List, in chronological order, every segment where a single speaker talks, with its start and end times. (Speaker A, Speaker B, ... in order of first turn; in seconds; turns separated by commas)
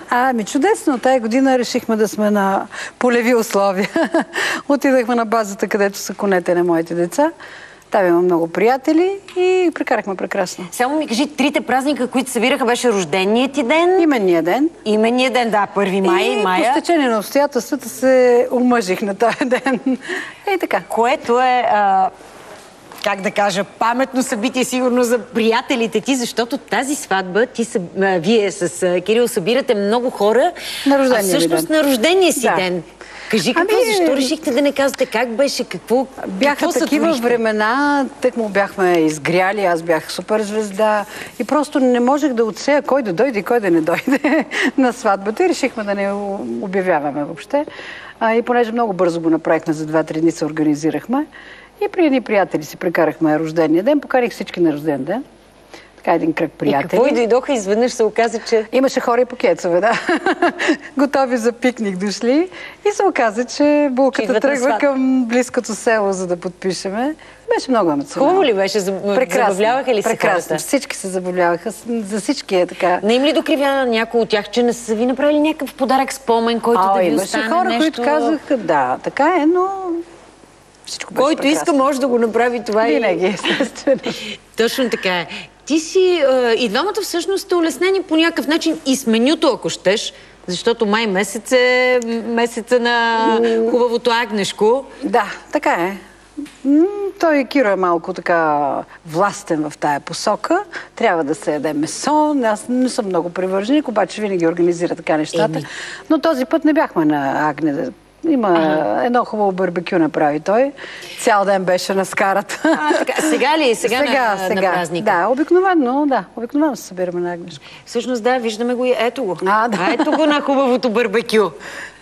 Speaker A: 0.1-7.3, Speaker A: 7.9-10.7, Speaker B: 10.7-14.1, Speaker A: 14.0-14.7, Speaker B: 14.8-16.8, Speaker A: 16.0-20.9, Speaker B: 20.9-22.1, Speaker B: 23.0-30.6, Speaker A: 30.9-31.7, Speaker B: 31.1-37.4, Speaker A: 32.4-32.7, Speaker A: 33.5-34.4, Speaker A: 36.2-47.7, Speaker A: 48.2-51.3, Speaker A: 51.8-55.2, Speaker A: 56.0-57.2, Speaker B: 56.7-58.7, Speaker A: 58.7-68.5, Speaker B: 64.1-64.8, Speaker B: 68.1-70.6, Speaker A: 69.1-73.0, Speaker B: 73.0-78.4, Speaker A: 76.7-80.0, Speaker A: 80.9-81.8, Speaker B: 81.2-83.6, Speaker A: 82.8-84.2, Speaker B: 84.2-94.9, Speaker A: 93.2-93.8, Speaker A: 95.0-96.0, Speaker A: 96.6-117.6, Speaker B: 105.3-105.7, Speaker B: 112.7-115.2, Speaker B: 117.8-121.6, Speaker A: 119.4-120.3